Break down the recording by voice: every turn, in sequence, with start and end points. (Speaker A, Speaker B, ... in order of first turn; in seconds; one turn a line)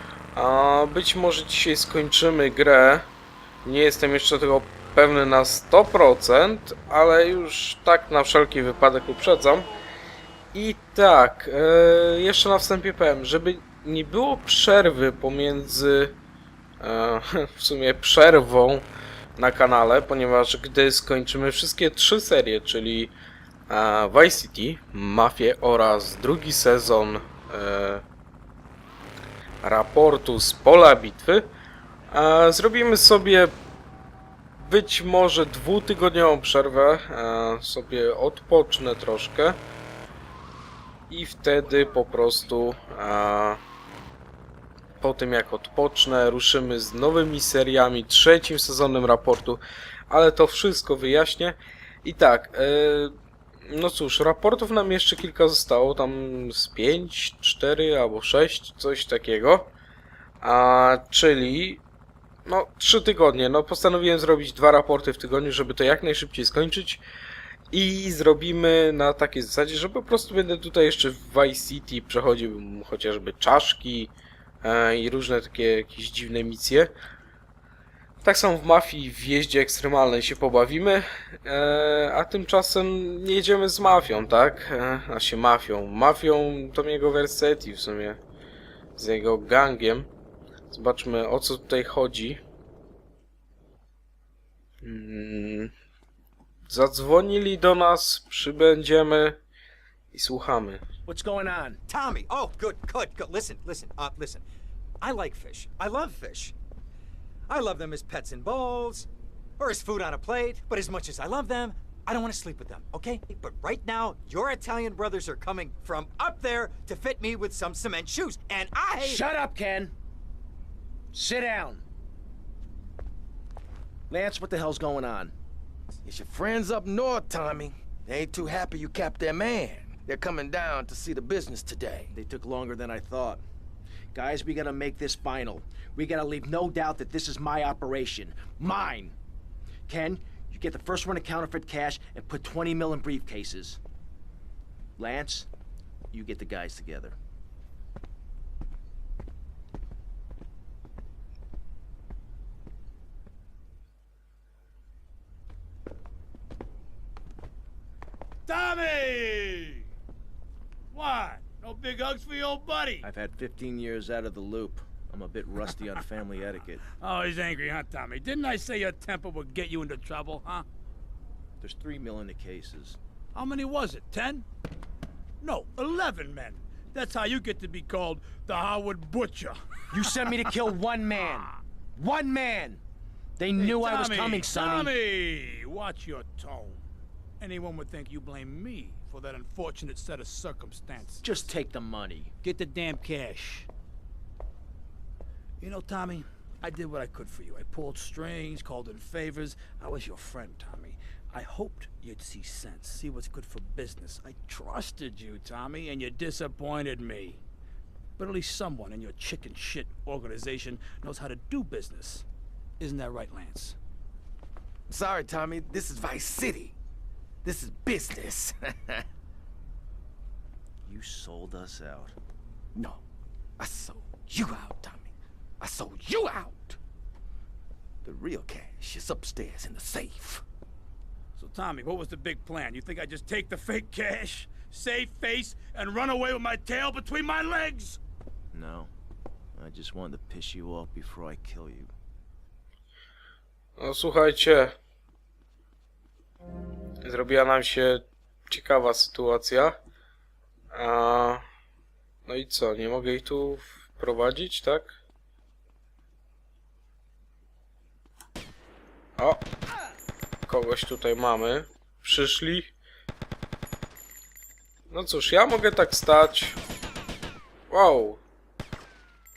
Speaker A: 0.3-3.1
Speaker A: 3.6-9.7
Speaker A: 10.5-16.1
Speaker A: 16.8-23.1
Speaker A: 23.7-28.0
Speaker A: 29.6-31.4
Speaker A: 32.1-33.5
Speaker A: 34.6-39.6
Speaker A: 41.1-43.6
Speaker A: 45.0-53.1
Speaker A: 53.7-59.7
Speaker A: 60.4-61.8
Speaker A: 62.5-67.0
Speaker A: 67.7-76.9
Speaker A: 78.2-88.2
Speaker A: 89.0-90.1
Speaker A: 90.7-92.4
Speaker A: 94.8-95.7
Speaker A: 96.7-99.4
Speaker A: 100.1-100.8
Speaker B: 101.0-101.8
Speaker C: 101.9-104.4
Speaker C: 105.0-106.5
Speaker C: 107.5-119.2
Speaker B: 119.0-119.9
Speaker B: 121.1-121.8
Speaker B: 124.1-125.3
Speaker D: 126.0-132.1
Speaker B: 132.1-133.4
Speaker B: 134.1-139.2
Speaker B: 139.9-143.8
Speaker B: 145.0-145.5
Speaker B: 146.1-147.2
Speaker E: 158.4-159.9
Speaker E: 160.9-163.0
Speaker B: 163.0-166.9
Speaker E: 166.9-170.6
Speaker B: 171.6-173.0
Speaker E: 173.3-174.4
Speaker E: 175.4-180.5
Speaker B: 179.9-182.8
Speaker E: 181.2-181.5
Speaker B: 183.4-184.9
Speaker E: 183.6-186.8
Speaker E: 187.4-191.3
Speaker B: 191.2-192.3
Speaker E: 192.4-193.7
Speaker E: 195.6-207.4
Speaker E: 208.2-212.2
Speaker E: 212.8-213.8
Speaker D: 214.9-216.7
Speaker D: 217.4-219.0
Speaker B: 220.8-222.1
Speaker D: 222.8-223.0
Speaker D: 223.6-226.8
Speaker D: 228.0-230.4
Speaker E: 231.3-238.0
Speaker B: 238.5-238.9
Speaker B: 239.6-241.9
Speaker A: 243.8-244.7
Speaker A: 247.0-249.8
Speaker A: 250.7-251.4
Speaker A: 252.2-255.0
Speaker A: 259.2-259.4
Speaker A: 260.5-262.7
Speaker A: 264.9-266.6
Speaker A: 267.7-268.2